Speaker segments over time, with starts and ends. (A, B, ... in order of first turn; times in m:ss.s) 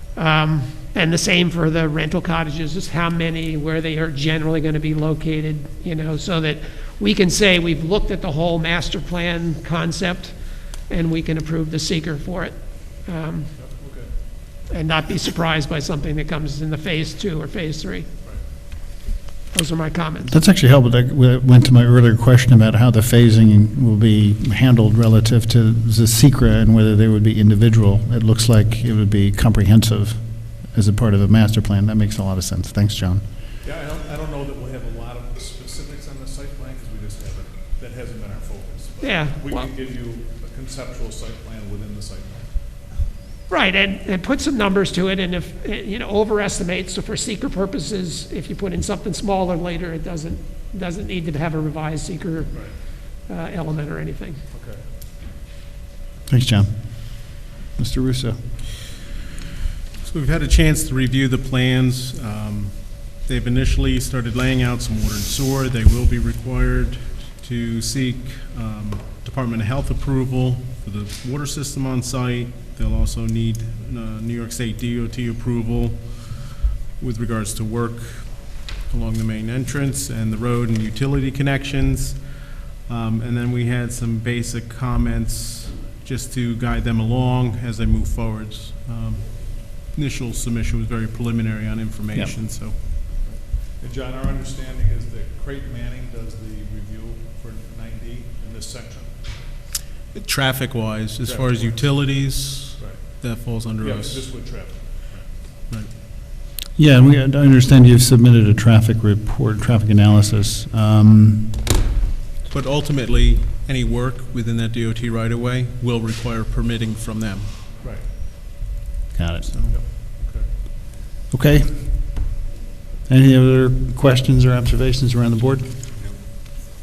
0:00.1-0:13.5 A
0:13.6-0:14.1 B
0:14.7-0:18.1 A
0:19.5-0:20.3 A
0:20.2-0:33.2 C
0:33.6-0:42.9 B
0:39.0-0:39.7 A
0:43.5-0:54.4 A
0:52.5-0:52.8 B
0:54.5-0:54.9 B
0:56.3-0:58.5 C
1:00.0-1:32.8 D
1:33.2-1:39.5 B
1:40.1-1:44.6 D
1:41.2-1:43.2 B
1:43.8-1:45.3 B
1:46.7-1:51.6 C
1:52.5-1:57.5 D
1:57.8-1:58.1 B
1:59.1-1:59.7 C
1:59.4-1:59.8 D
1:59.7-2:00.5 B
2:01.3-2:02.3 C
2:03.1-2:05.7 C